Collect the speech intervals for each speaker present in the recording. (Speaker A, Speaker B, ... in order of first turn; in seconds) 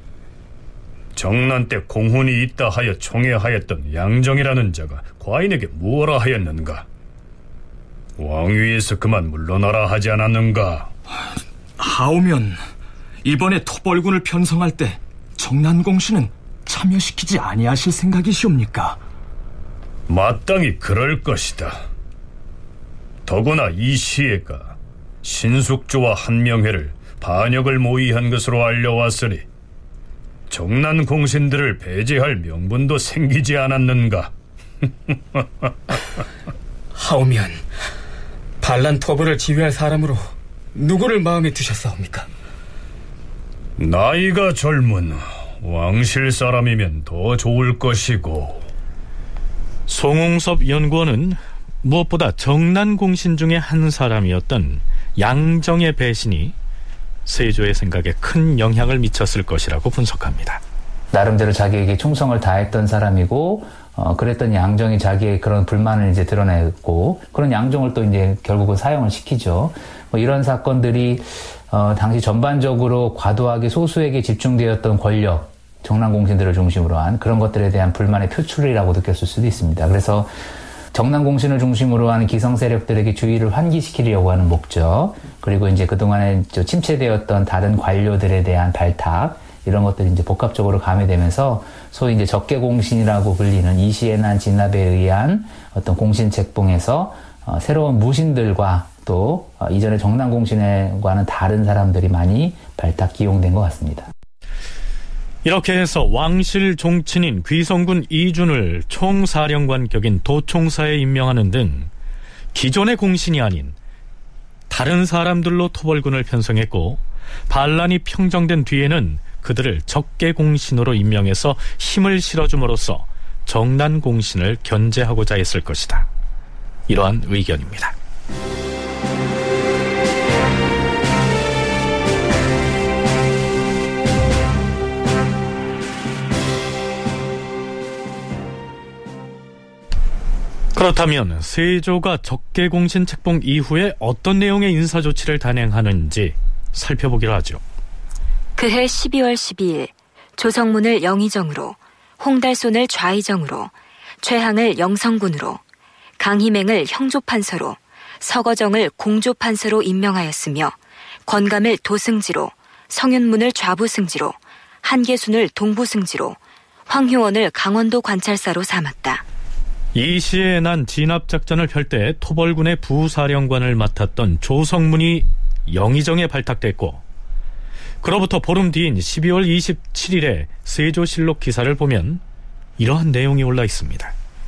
Speaker A: 1.1-6.8, 8.2-10.9, 20.1-21.8, 23.2-29.4, 30.5-34.3, 43.8-48.6
Speaker B: 11.8-12.6, 13.2-19.0, 36.9-37.6, 38.6-40.2, 40.7-42.3
Speaker C: 49.9-56.5, 57.2-60.6, 105.4-111.9, 112.5-113.8, 114.7-126.1, 126.9-127.9, 140.7-147.6, 169.9-177.0, 178.0-182.2, 182.8-184.1
Speaker D: 61.1-80.3, 80.9-104.1
Speaker E: 148.6-155.6, 156.2-160.7, 161.3-166.4, 166.9-169.2